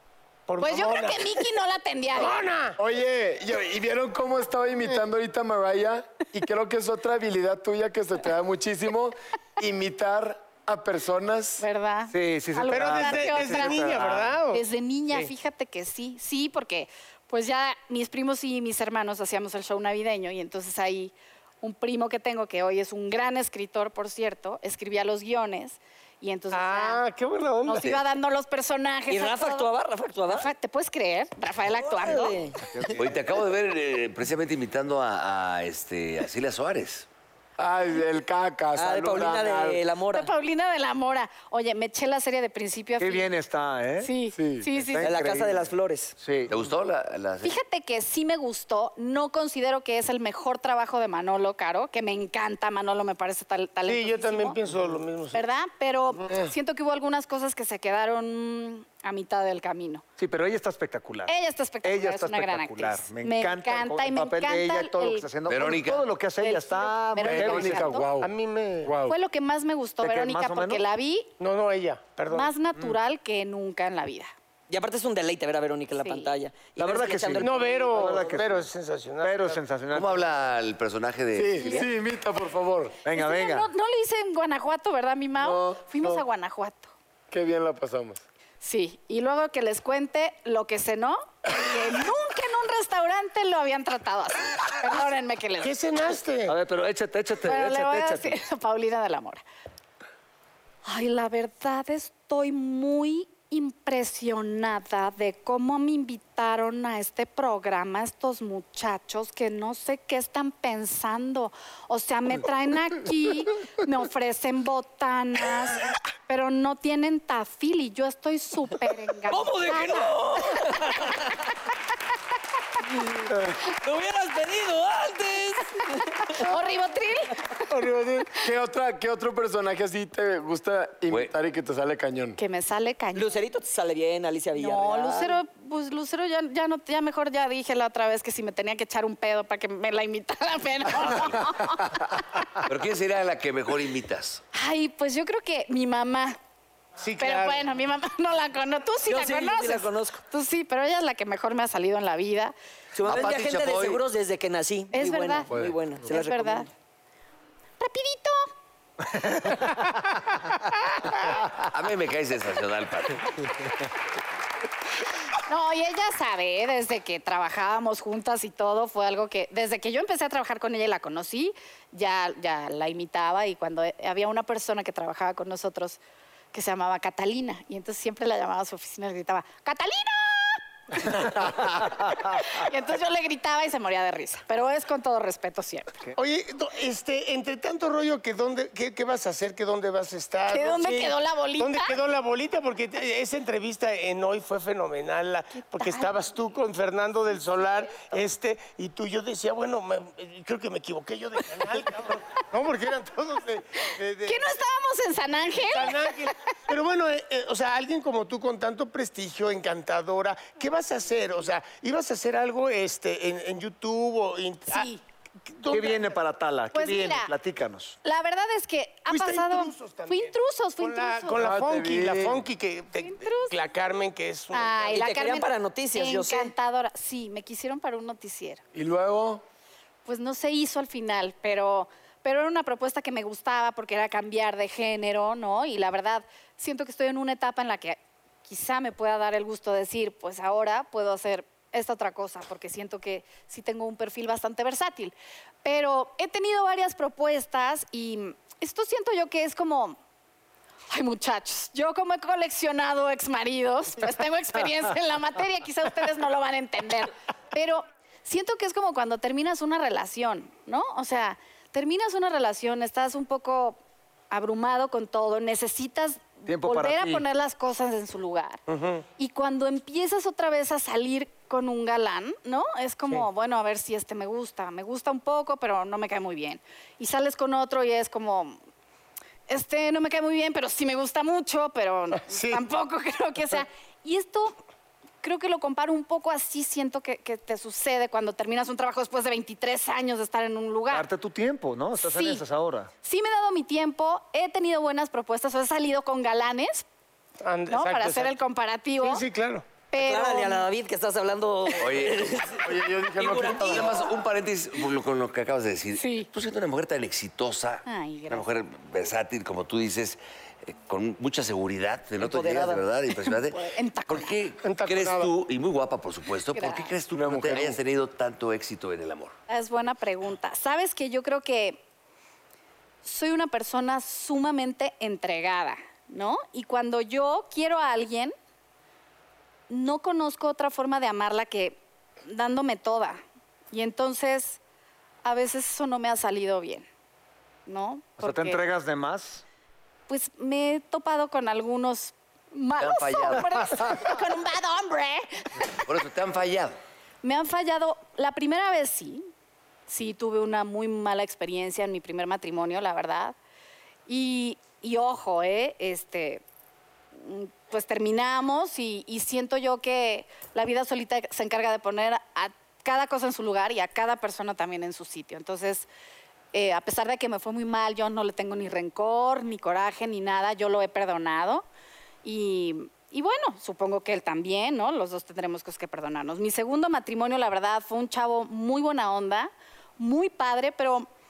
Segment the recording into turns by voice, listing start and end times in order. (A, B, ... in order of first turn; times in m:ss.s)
0:00.5-0:01.4 A
0:00.6-0:02.4 B
0:02.1-0:02.8 A
0:02.8-0:11.6 C
0:11.6-0:27.0 B
0:12.1-0:14.3 D
0:12.7-0:15.3 A
0:26.5-0:28.0 A
0:27.6-0:29.7 B
0:29.1-0:30.5 E
0:30.3-0:32.4 B
0:31.8-0:32.6 E
0:32.7-0:33.2 D
0:33.0-0:37.1 F
0:37.6-0:39.8 C
0:38.8-0:40.3 E
0:40.1-0:43.3 B
0:43.0-0:44.1 D
0:44.0-0:45.1 B
0:44.4-0:44.7 C
0:44.7-0:46.5 D
0:45.0-0:46.2 E
0:46.5-0:47.6 F
0:47.4-0:54.6 B
0:53.9-0:55.4 A
0:55.3-1:00.0 B
1:00.2-1:08.1 D
1:01.3-1:05.3 B
1:05.5-1:06.1 F
1:06.4-1:08.1 B
1:07.2-1:08.3 C
1:08.2-1:09.0 A
1:08.8-1:09.2 C
1:09.0-1:11.3 B
1:10.0-1:10.8 D
1:11.4-1:12.5 A
1:12.3-1:14.3 B
1:14.7-1:18.1 E
1:16.0-1:16.3 B
1:16.8-1:18.7 D
1:17.4-1:19.6 A
1:19.2-1:20.2 D
1:19.9-1:21.9 F
1:21.3-1:23.0 C
1:21.6-1:21.9 B
1:23.0-1:23.7 D
1:23.1-1:26.9 B
1:25.4-1:26.2 C
1:27.3-1:28.2 C
1:28.6-1:35.7 B
1:35.6-1:36.6 A
1:36.5-1:38.3 D
1:37.4-1:39.4 B
1:40.8-2:01.1 B
1:59.3-2:01.4 E
2:02.8-2:06.4 E
2:06.3-2:07.6 B
2:07.8-2:12.4 C
2:11.1-2:11.3 F
2:12.4-2:13.3 B
2:13.1-2:15.4 E
2:14.6-2:22.5 B
2:21.0-2:21.6 F
2:22.6-2:24.4 F
2:24.5-2:26.4 B
2:27.0-2:27.6 A
2:27.2-2:32.5 B
2:29.1-2:30.2 E
2:32.9-2:36.7 E
2:33.0-2:34.0 F
2:34.9-2:35.5 B
2:35.5-2:35.8 C
2:36.1-2:36.7 B
2:37.8-2:38.5 B
2:41.5-2:43.5 F
2:45.5-2:56.0 B
2:56.5-3:06.0 B
3:06.2-3:24.5 A
3:10.5-3:11.9 B
3:15.8-3:16.1 B
3:24.3-3:26.1 B
3:25.5-3:34.9 A
3:34.7-3:35.0 B
3:35.5-3:36.2 A
3:35.7-3:38.0 D
3:36.7-3:37.3 B
3:38.0-3:41.4 B
3:39.1-3:45.0 A
3:41.4-3:42.4 C
3:43.0-3:43.6 B
3:44.5-3:48.6 B
3:44.9-3:46.5 E
3:48.8-3:49.4 C
3:50.0-4:10.0 B
4:10.9-4:23.8 B
4:24.3-4:28.6 B
4:26.5-4:27.3 D
4:28.7-4:29.0 A
4:29.2-4:38.6 B
4:39.5-4:44.6 B
4:42.3-4:42.6 A
4:45.2-4:51.1 B
4:50.9-4:52.9 D
4:52.0-4:52.4 B
4:53.0-4:56.8 B
4:57.4-4:58.3 A
4:57.7-4:59.2 B
4:59.0-4:59.6 A
4:59.9-5:00.6 B
5:00.0-5:03.8 E
5:01.8-5:02.3 F
5:02.6-5:03.9 C
5:03.2-5:19.3 F
5:06.0-5:06.3 B
5:07.9-5:08.4 B
5:12.2-5:12.8 E
5:13.3-5:14.4 B
5:14.6-5:15.3 A
5:16.5-5:16.9 B
5:17.1-5:17.8 C
5:19.5-5:21.8 B
5:23.0-5:28.3 B
5:29.7-5:33.2 B
5:33.7-5:34.6 B
5:35.2-5:36.9 B
5:37.7-5:38.6 B
5:38.2-5:39.4 D
5:40.1-5:45.8 B
5:42.8-5:44.1 F
5:45.7-5:46.8 F
5:47.2-5:49.3 B
5:49.9-5:53.4 B
5:54.1-5:56.4 B
5:57.2-6:05.9 B
6:06.5-6:11.6 B
6:12.2-6:21.1 B